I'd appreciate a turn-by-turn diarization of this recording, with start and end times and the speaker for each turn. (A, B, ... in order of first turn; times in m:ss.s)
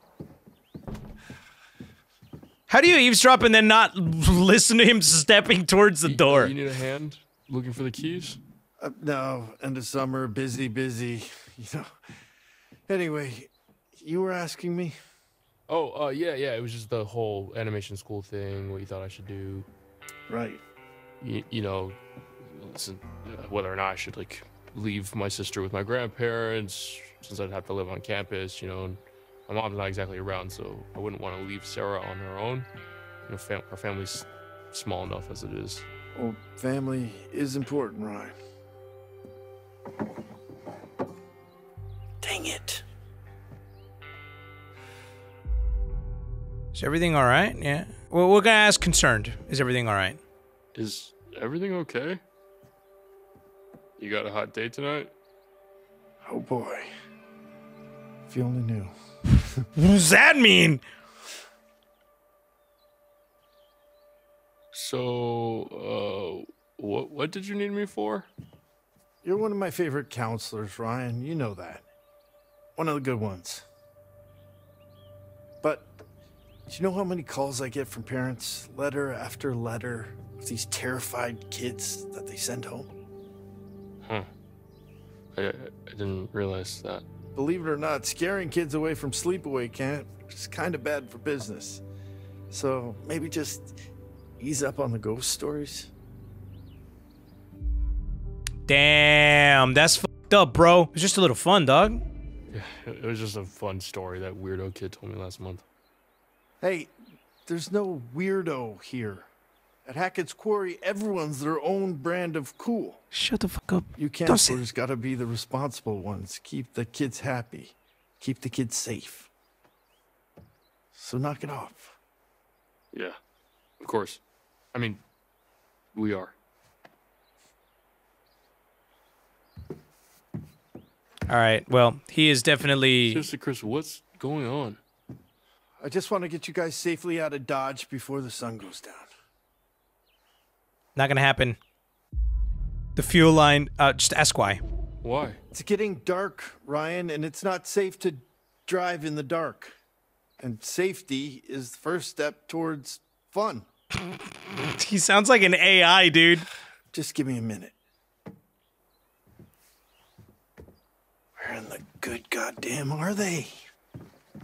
0:02.7-0:06.5 A
0:06.0-0:08.4 B
0:08.8-0:11.9 C
0:12.9-0:15.0 C
0:15.7-0:19.7 B
0:20.3-0:20.6 C
0:21.2-0:32.7 B
0:33.3-0:35.8 B
0:36.1-0:38.3 C
0:42.2-0:42.8 C
0:46.7-0:50.2 A
0:50.7-0:52.2 B
0:54.0-0:55.1 B
0:56.2-0:56.9 C
0:58.3-0:58.9 C
0:59.8-1:00.8 A
1:04.7-1:08.3 B
1:09.2-1:11.8 C
1:12.8-1:13.6 C
1:15.6-1:16.0 C
1:16.7-1:22.9 C
1:24.0-1:24.3 B
1:25.3-1:27.0 B
1:27.3-1:31.8 C
1:32.5-1:33.7 C
1:34.4-1:35.9 C
1:38.7-1:42.0 A
1:42.5-1:45.6 B
1:46.6-1:46.9 C
1:47.4-1:49.3 C
1:49.8-1:53.0 C
1:53.1-1:54.6 A
1:54.0-1:59.3 C
2:00.9-2:01.9 C
2:03.8-2:04.2 B
2:04.7-2:05.0 B
2:05.9-2:06.3 B
2:11.3-2:13.3 A
2:13.0-2:14.8 B
2:15.8-2:19.1 C
2:21.0-2:21.6 A
2:23.0-2:24.6 A
2:25.0-2:25.4 B
2:25.5-2:29.7 C
2:30.4-2:33.6 C
2:34.7-2:36.4 A
2:36.9-2:37.7 C
2:41.4-2:43.6 C